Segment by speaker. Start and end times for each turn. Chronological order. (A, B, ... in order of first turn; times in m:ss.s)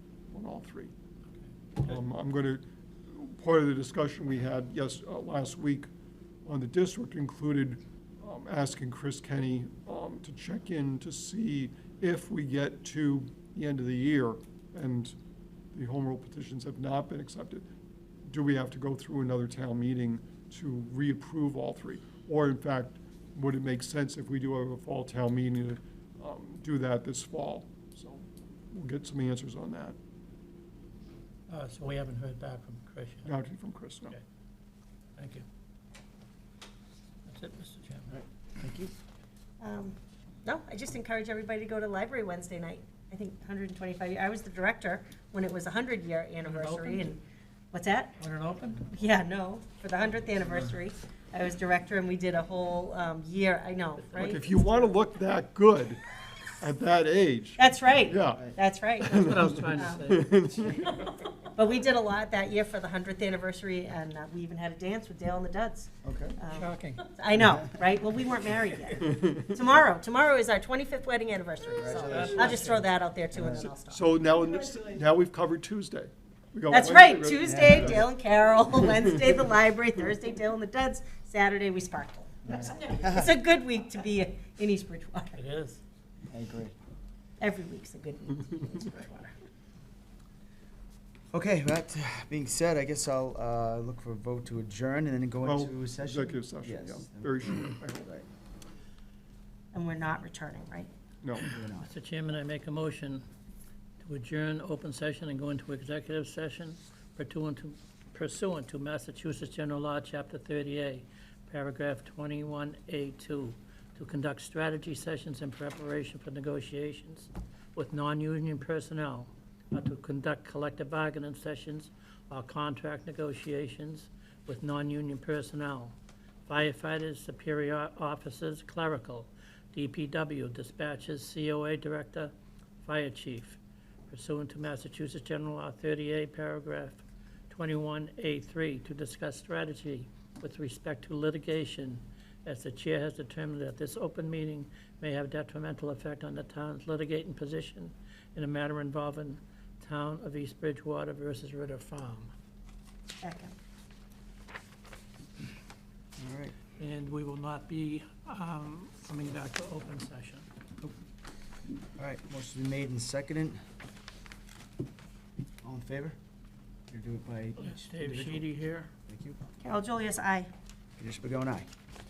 0:00.3-0:00.9 A
0:01.8-0:05.9 A
0:06.4-0:15.2 A
0:15.7-0:17.6 A
0:18.3-0:30.0 A
0:31.5-0:33.3 B
0:33.2-0:34.2 A
0:35.2-0:35.5 B
0:37.3-0:38.2 B
0:38.1-0:38.9 C
0:39.6-0:47.2 D
0:46.4-0:47.1 B
0:47.7-0:48.2 D
0:48.2-0:48.9 B
0:48.9-0:54.9 D
0:54.0-0:54.4 B
0:54.2-0:56.0 A
0:56.6-0:58.5 A
0:57.6-1:00.3 D
0:59.0-1:01.1 A
0:59.1-1:00.3 B
1:01.5-1:14.1 D
1:06.0-1:06.4 C
1:06.5-1:07.1 B
1:11.8-1:12.6 C
1:12.0-1:12.9 B
1:13.6-1:18.0 A
1:16.7-1:25.4 D
1:17.4-1:18.0 C
1:22.5-1:23.3 C
1:25.4-1:25.8 B
1:26.3-1:26.7 C
1:27.4-1:29.4 D
1:31.3-1:38.3 C
1:35.4-1:38.2 A
1:39.7-1:40.9 D
1:41.2-1:41.5 A
1:41.4-1:43.2 B
1:41.5-1:41.9 C
1:44.0-2:06.0 B
2:06.5-2:13.6 B
2:14.1-2:32.3 B
2:33.2-2:33.6 D
2:36.2-2:36.6 C
2:36.8-2:40.5 B
2:42.0-2:43.6 C
2:45.6-2:46.2 C
2:46.9-2:48.5 C
2:47.6-2:48.9 B
2:49.1-2:49.4 C
2:49.6-2:50.5 D
2:51.0-2:51.7 C